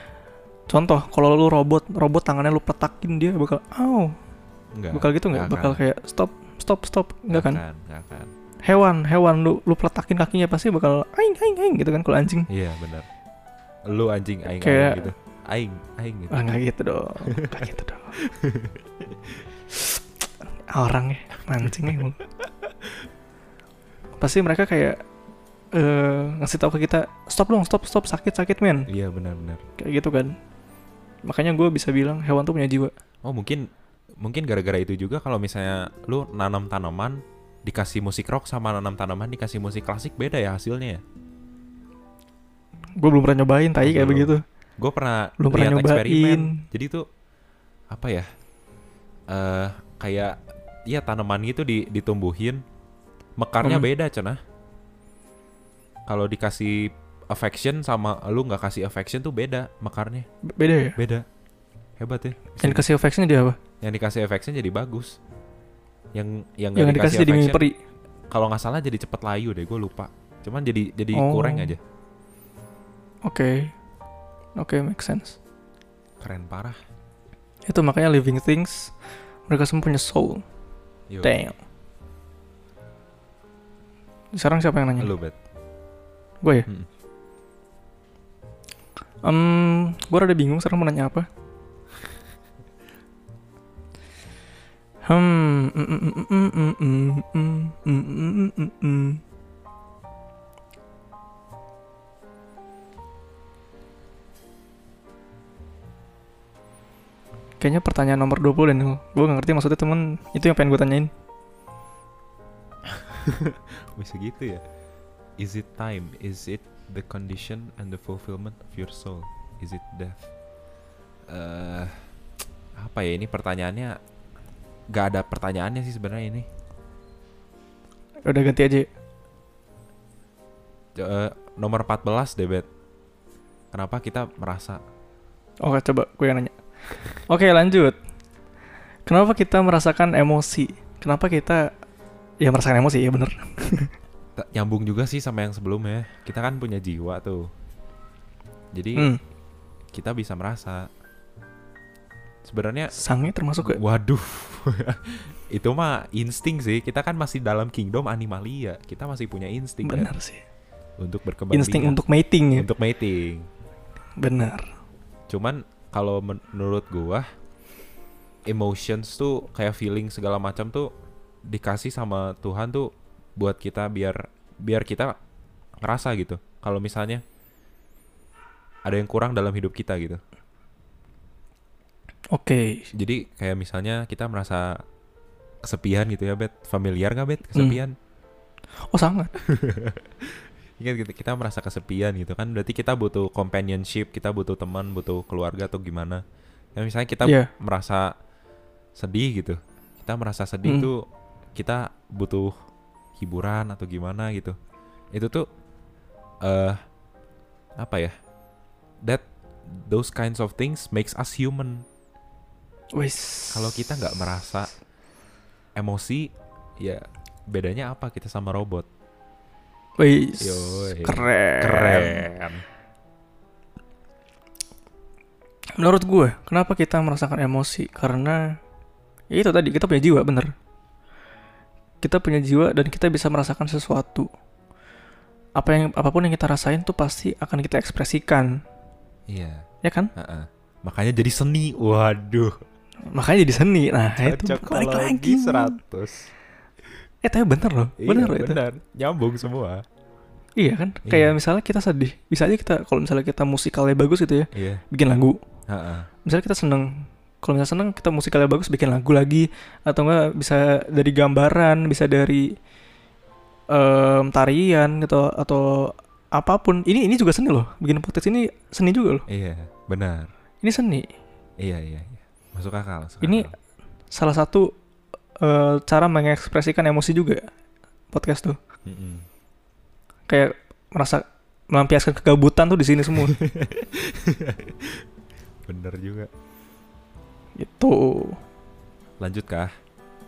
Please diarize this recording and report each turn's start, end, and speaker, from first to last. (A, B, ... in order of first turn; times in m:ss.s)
0:00.7-0:04.1 A
0:04.7-0:05.8 B
0:04.9-0:07.6 A
0:07.3-0:08.3 B
0:08.6-0:12.5 A
0:12.5-0:13.1 B
0:13.9-0:16.4 B
0:14.5-0:15.1 A
0:16.3-0:18.2 A
0:17.3-0:19.3 B
0:19.7-0:20.0 A
0:20.7-0:22.2 A
0:21.6-0:22.0 B
0:24.2-0:25.0 A
0:25.7-0:28.9 A
0:28.9-0:29.6 B
0:29.8-0:30.4 A
0:31.2-0:32.9 A
0:33.2-0:33.7 B
0:34.2-0:41.0 B
0:43.0-0:44.4 A
0:43.8-0:47.1 B
0:45.4-0:46.6 A
0:47.9-0:48.3 B
0:49.3-0:52.6 B
0:53.4-0:54.4 B
0:56.1-1:00.3 B
1:00.5-1:01.0 A
1:01.0-1:01.3 B
1:02.0-1:02.8 B
1:02.6-1:03.6 A
1:03.8-1:05.2 B
1:06.1-1:07.6 B
1:06.8-1:07.8 A
1:08.3-1:11.8 B
1:11.1-1:11.8 A
1:13.2-1:13.7 A
1:14.6-1:15.4 A
1:16.2-1:16.8 B
1:17.7-1:18.9 A
1:19.5-1:20.4 A
1:21.1-1:21.4 B
1:21.2-1:21.6 A
1:24.3-1:25.1 A
1:25.0-1:25.4 B
1:26.4-1:26.7 A
1:29.2-1:31.3 A
1:35.0-1:39.2 A
1:47.6-1:51.1 A
1:52.9-1:54.6 B
1:55.4-2:00.2 B
2:01.3-2:02.0 B
2:02.8-2:04.0 B
2:04.9-2:06.5 B
2:08.3-2:08.9 A
2:11.0-2:12.7 B
2:13.7-2:14.8 B
2:15.6-2:16.5 A
2:17.3-2:18.0 A
2:19.1-2:21.7 A
2:22.4-2:23.9 A
2:24.4-2:27.5 B
2:28.7-2:29.1 B
2:29.0-2:29.2 A
2:29.9-2:30.9 B
2:32.4-2:33.0 B
2:33.0-2:33.8 A
2:33.6-2:40.1 B
2:39.8-2:40.4 A
2:41.0-2:42.0 B
2:41.5-2:42.7 A
2:42.6-2:43.5 B
2:44.2-2:44.7 A
2:45.3-2:47.3 B
2:48.5-2:50.9 B
2:51.5-2:55.2 B
2:55.8-2:57.2 B
2:58.9-3:00.2 B
3:02.3-3:02.9 A
3:02.9-3:04.8 B
3:05.6-3:08.0 B
3:07.5-3:07.8 A
3:08.9-3:09.3 A
3:09.4-3:16.2 B
3:16.8-3:18.1 B
3:17.2-3:17.5 A
3:19.0-3:22.5 B
3:20.6-3:20.9 A
3:23.2-3:24.6 B
3:25.1-3:25.5 B
3:26.4-3:26.8 B
3:27.8-3:28.1 B
3:29.0-3:31.9 B
3:33.0-3:33.7 A
3:33.5-3:34.7 B
3:35.8-3:38.9 B
3:40.0-3:42.3 A
3:40.4-3:42.6 B
3:45.8-3:48.6 A
3:49.3-3:50.5 A
3:52.0-3:54.3 A
3:55.6-3:58.6 A
3:59.3-3:59.6 B
3:59.8-4:00.1 A
4:00.2-4:02.6 B
4:03.1-4:05.8 A
4:04.2-4:06.3 B
4:07.2-4:08.6 A
4:08.0-4:09.8 B
4:10.6-4:15.4 A
4:11.1-4:11.4 B
4:14.5-4:14.8 B
4:15.7-4:16.1 B
4:16.2-4:22.5 A
4:23.7-4:29.2 A
4:29.3-4:30.3 B
4:30.6-4:31.1 A
4:31.6-4:33.6 B
4:33.2-4:33.5 A
4:34.1-4:34.7 A
4:35.4-4:37.4 A
4:38.1-4:38.6 A
4:38.9-4:39.3 B
4:40.3-4:43.4 A
4:43.1-4:45.0 B
4:45.7-4:46.3 B
4:47.6-4:48.4 A
4:49.2-4:49.7 B